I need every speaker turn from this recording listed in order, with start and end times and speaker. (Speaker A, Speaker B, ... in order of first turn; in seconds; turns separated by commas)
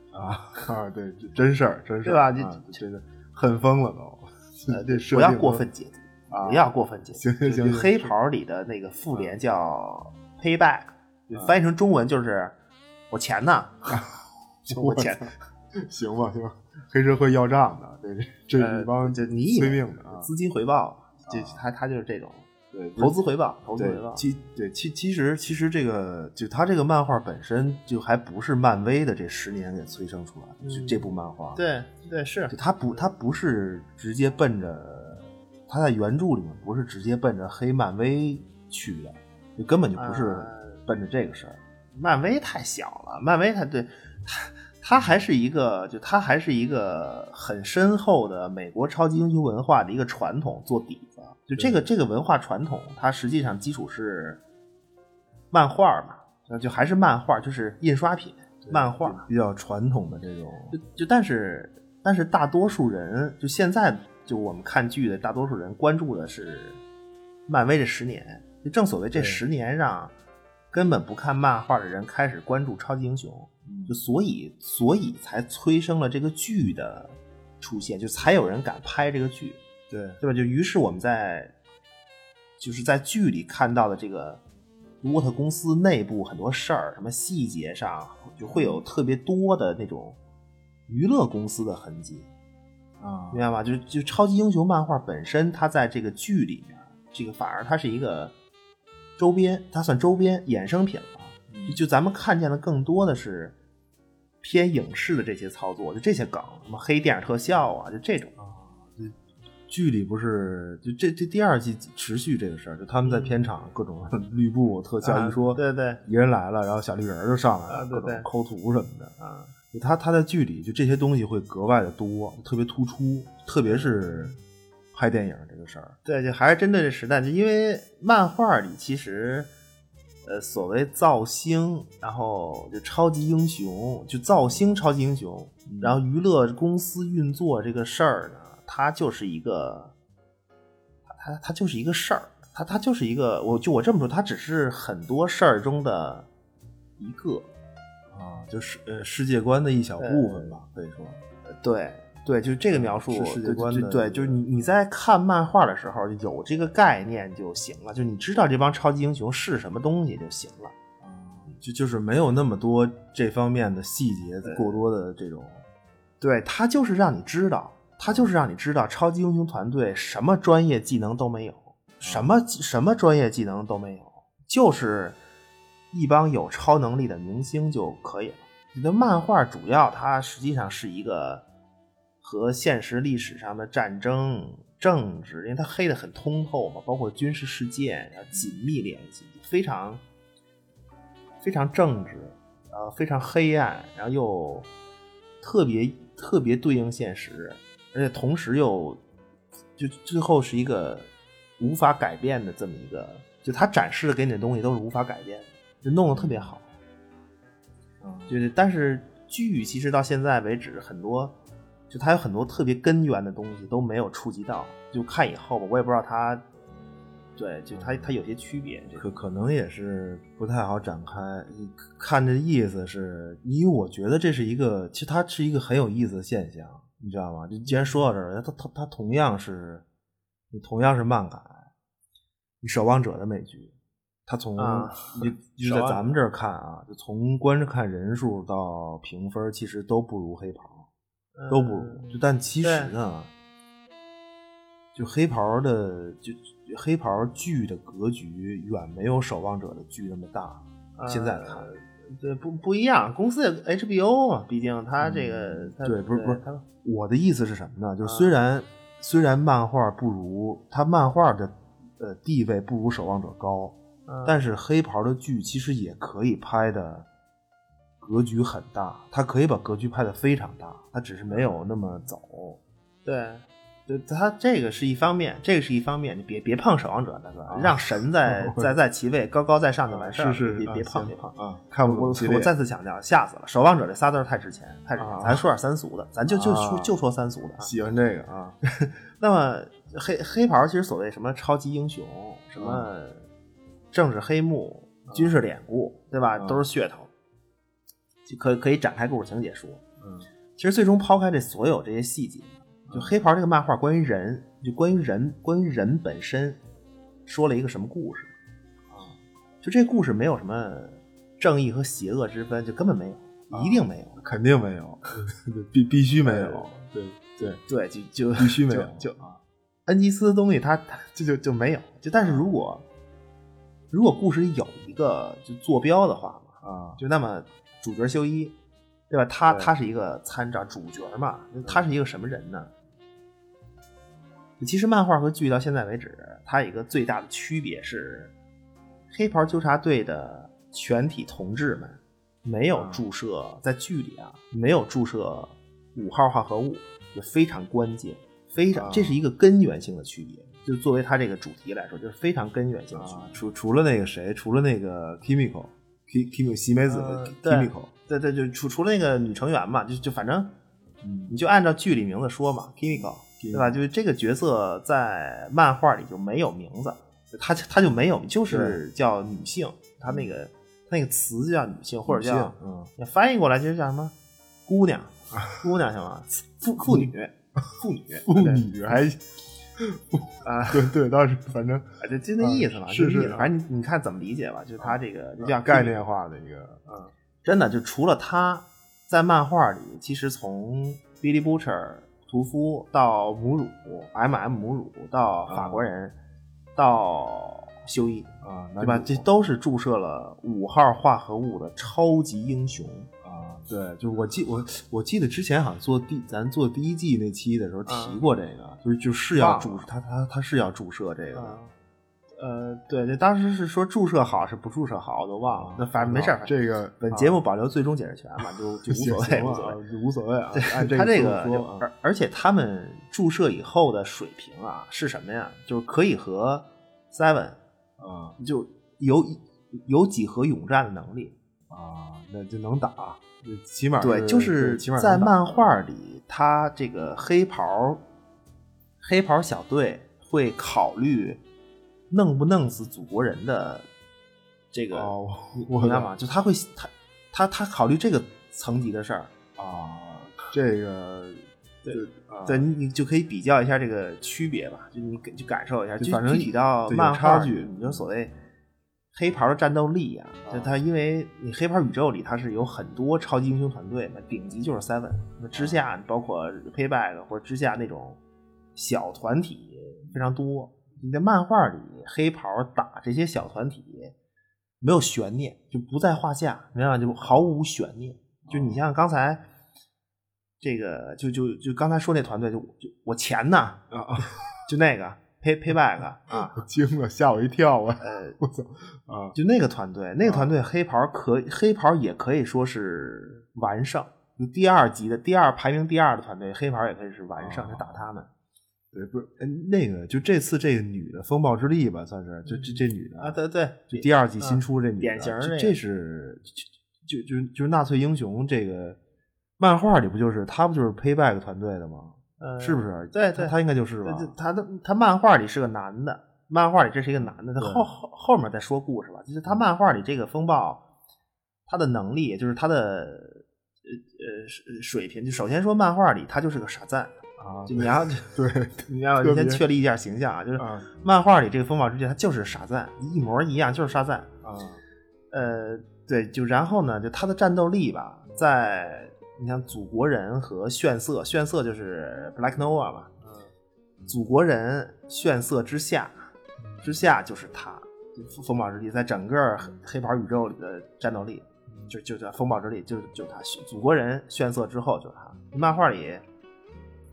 Speaker A: 0.1-5.7, Speaker B: 2.0-2.8, Speaker B: 4.7-12.6, Speaker A: 6.3-8.1, Speaker B: 13.1-14.0, Speaker A: 13.9-20.3, Speaker B: 14.7-15.3, Speaker B: 18.6-24.2, Speaker A: 21.3-21.6, Speaker A: 22.7-23.1, Speaker A: 23.7-31.6, Speaker B: 30.6-33.1, Speaker A: 32.5-41.6, Speaker B: 39.9-40.8, Speaker B: 41.9-54.4, Speaker A: 51.5-51.8, Speaker B: 55.5-59.3, Speaker A: 58.6-60.8, Speaker B: 60.7-66.8, Speaker B: 67.5-70.1, Speaker A: 69.1-69.4, Speaker B: 70.7-79.6, Speaker A: 73.6-74.0, Speaker A: 79.9-80.2, Speaker B: 80.2-81.5, Speaker B: 82.6-84.4, Speaker B: 85.0-90.2, Speaker A: 88.5-88.8, Speaker B: 90.9-92.3, Speaker A: 93.0-93.5, Speaker B: 93.3-98.3, Speaker B: 99.2-103.5, Speaker A: 101.4-101.8, Speaker B: 104.4-108.3, Speaker A: 108.4-109.2, Speaker A: 109.7-119.1, Speaker B: 113.0-113.4, Speaker B: 115.0-116.0, Speaker B: 117.7-118.3, Speaker B: 119.2-119.5, Speaker A: 119.7-124.3, Speaker B: 123.6-124.4, Speaker A: 124.9-126.0, Speaker B: 126.0-129.5, Speaker B: 130.2-139.9, Speaker A: 135.7-136.0, Speaker B: 141.1-146.3, Speaker B: 147.0-147.5, Speaker A: 148.1-151.2, Speaker B: 150.0-150.6, Speaker B: 151.4-160.7, Speaker A: 152.7-154.4, Speaker A: 161.0-165.6, Speaker B: 164.4-164.8, Speaker B: 166.2-175.2, Speaker A: 168.0-168.3, Speaker A: 172.0-172.4, Speaker B: 175.9-181.4, Speaker B: 182.2-190.0, Speaker B: 191.4-194.7, Speaker B: 195.4-199.0, Speaker B: 199.8-206.7, Speaker A: 206.1-206.5, Speaker A: 208.0-208.4, Speaker B: 208.3-211.3, Speaker B: 211.9-216.4, Speaker B: 217.3-219.1, Speaker A: 217.7-218.1, Speaker A: 218.9-229.8, Speaker A: 230.5-231.7, Speaker A: 232.6-233.7, Speaker A: 234.3-240.9, Speaker B: 234.6-236.2, Speaker B: 241.3-242.9, Speaker A: 241.5-243.3, Speaker A: 244.9-251.7, Speaker B: 250.9-256.6, Speaker A: 255.0-267.1, Speaker B: 258.0-258.4, Speaker B: 264.1-264.4, Speaker A: 268.0-272.6, Speaker B: 271.3-271.6, Speaker B: 273.0-287.7, Speaker A: 277.5-278.8, Speaker A: 279.9-282.5, Speaker A: 284.9-285.4, Speaker A: 286.2-286.9, Speaker A: 287.6-288.6, Speaker B: 288.7-293.3, Speaker A: 292.6-292.9, Speaker B: 293.9-297.1, Speaker A: 295.1-295.4, Speaker A: 296.4-296.6, Speaker B: 298.2-299.8, Speaker A: 300.0-300.3, Speaker B: 300.6-306.6, Speaker A: 302.9-303.2, Speaker B: 307.2-308.3, Speaker A: 308.9-309.2, Speaker B: 309.6-314.2, Speaker A: 313.5-317.6, Speaker B: 316.2-316.7, Speaker B: 317.6-319.2, Speaker A: 318.4-319.4, Speaker B: 319.9-322.9, Speaker A: 322.2-322.5, Speaker B: 323.9-328.5, Speaker A: 326.6-327.0, Speaker B: 329.1-332.7, Speaker A: 329.5-329.7, Speaker B: 334.6-338.3, Speaker B: 339.1-353.4, Speaker A: 342.7-343.0, Speaker A: 348.7-349.2, Speaker A: 352.9-357.9, Speaker B: 356.9-360.5, Speaker A: 361.0-361.4, Speaker B: 361.3-374.1, Speaker A: 362.9-363.8, Speaker A: 368.5-368.8, Speaker A: 370.0-370.3, Speaker A: 372.1-372.9, Speaker B: 374.6-378.7, Speaker A: 376.8-377.1, Speaker A: 377.6-379.2, Speaker A: 379.8-381.9, Speaker B: 380.4-380.9, Speaker B: 382.0-386.0, Speaker A: 382.4-383.5, Speaker A: 384.8-386.8, Speaker B: 386.9-396.2, Speaker A: 395.5-395.9, Speaker B: 396.8-403.1, Speaker A: 398.4-399.3, Speaker A: 403.2-411.6, Speaker B: 407.9-408.2, Speaker B: 409.3-409.9, Speaker B: 411.3-411.7, Speaker B: 412.4-419.8, Speaker A: 415.5-417.4, Speaker A: 418.4-421.8, Speaker B: 420.5-427.6, Speaker A: 428.0-428.4, Speaker B: 428.4-431.4, Speaker A: 431.7-435.7, Speaker B: 434.0-438.0, Speaker B: 439.0-441.4, Speaker B: 442.1-443.9, Speaker B: 444.7-449.3, Speaker A: 444.9-446.1, Speaker A: 449.6-452.6, Speaker B: 451.8-458.3, Speaker A: 456.0-458.0, Speaker B: 459.1-468.2, Speaker A: 460.4-460.8, Speaker A: 465.5-465.8, Speaker B: 468.7-474.1, Speaker B: 474.8-479.4, Speaker A: 478.4-478.8, Speaker B: 480.6-483.8, Speaker A: 483.9-484.6, Speaker B: 484.6-486.6, Speaker A: 486.5-489.4, Speaker B: 488.0-488.4, Speaker B: 489.3-498.3, Speaker A: 490.2-490.5, Speaker A: 497.4-498.1, Speaker A: 498.9-503.4, Speaker B: 502.4-505.8, Speaker A: 503.9-509.0, Speaker A: 509.6-514.3, Speaker B: 512.4-520.8, Speaker A: 517.2-517.9, Speaker B: 521.7-528.3, Speaker A: 527.4-529.6, Speaker B: 528.9-534.3, Speaker A: 530.5-530.9, Speaker A: 534.4-534.8, Speaker B: 535.3-543.1, Speaker A: 543.2-543.5, Speaker B: 544.0-546.3, Speaker B: 546.8-556.2, Speaker A: 551.7-552.0